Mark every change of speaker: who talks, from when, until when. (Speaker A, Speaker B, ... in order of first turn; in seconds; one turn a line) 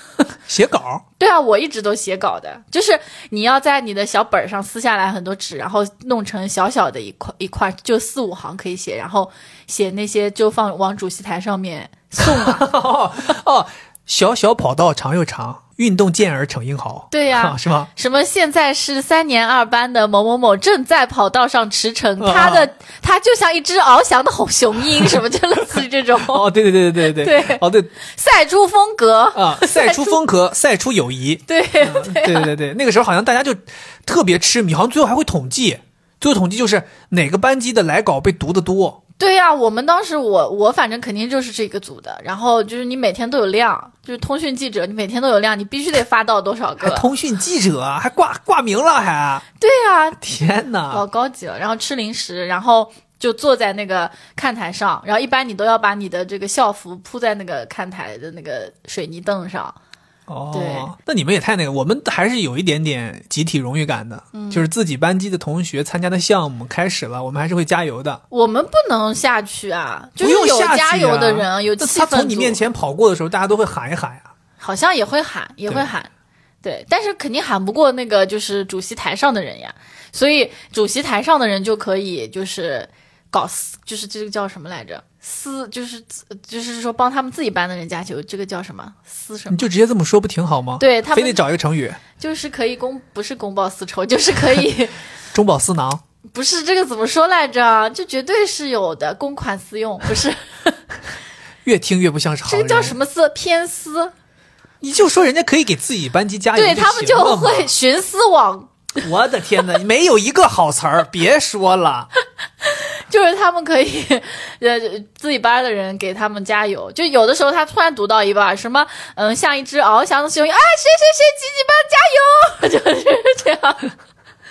Speaker A: 0.5-1.0
Speaker B: 1.2-12.7
Speaker A: 12.2-17.9
Speaker B: 17.1-30.2
Speaker A: 22.2-22.7
Speaker A: 26.2-27.9
Speaker A: 29.3-39.0
Speaker B: 31.5-32.5
Speaker B: 39.2-47.1
Speaker A: 46.8-49.4
Speaker B: 49.6-50.2
Speaker A: 50.2-51.0
Speaker B: 50.9-59.8
Speaker A: 60.3-68.2
Speaker B: 60.5-60.9
Speaker B: 64.3-64.7
Speaker B: 68.3-72.6
Speaker A: 70.2-74.3
Speaker B: 74.6-76.1
Speaker B: 76.6-89.6
Speaker A: 89.5-92.0
Speaker B: 90.8-91.4
Speaker B: 92.2-95.0
Speaker A: 95.3-96.0
Speaker B: 96.3-100.8
Speaker A: 101.6-103.0
Speaker B: 102.5-104.1
Speaker A: 104.8-107.7
Speaker B: 106.5-108.8
Speaker A: 109.0-112.1
Speaker B: 112.6-123.9